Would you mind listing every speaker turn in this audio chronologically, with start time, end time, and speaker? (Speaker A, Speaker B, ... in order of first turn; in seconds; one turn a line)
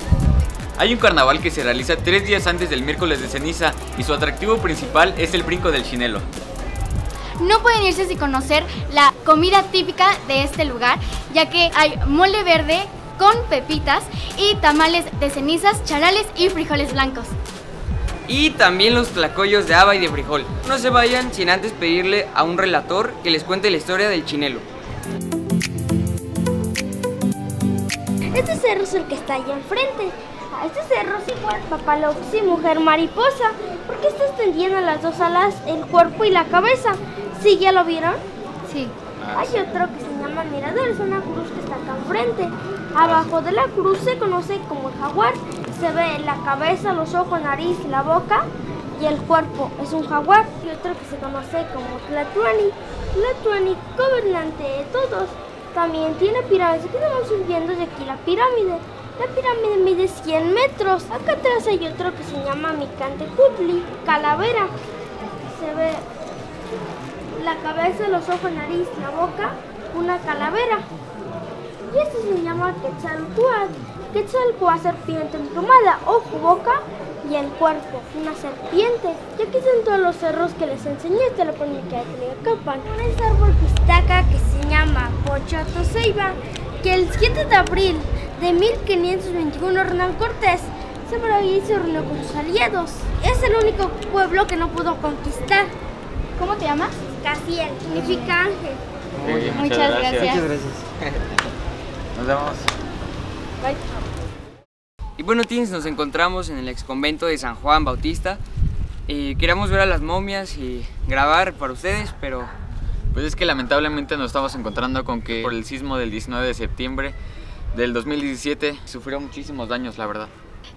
Speaker A: 0.8-6.3
Speaker B: 7.4-17.3
Speaker C: 18.3-24.6
Speaker D: 28.3-38.2
Speaker B: 38.7-38.9
Speaker A: 39.2-39.7
Speaker D: 39.3-64.7
Speaker A: 43.0-43.3
Speaker D: 65.5-66.0
Speaker D: 67.4-70.9
Speaker D: 71.9-95.7
Speaker B: 96.4-97.0
Speaker D: 97.2-98.8
Speaker B: 98.0-98.3
Speaker C: 99.2-99.6
Speaker A: 99.2-100.4
Speaker B: 99.5-100.5
Speaker C: 100.2-101.2
Speaker A: 102.1-102.7
Speaker C: 105.2-108.4
Speaker C: 109.1-112.5
Speaker A: 113.1-117.2
Speaker A: 117.7-120.3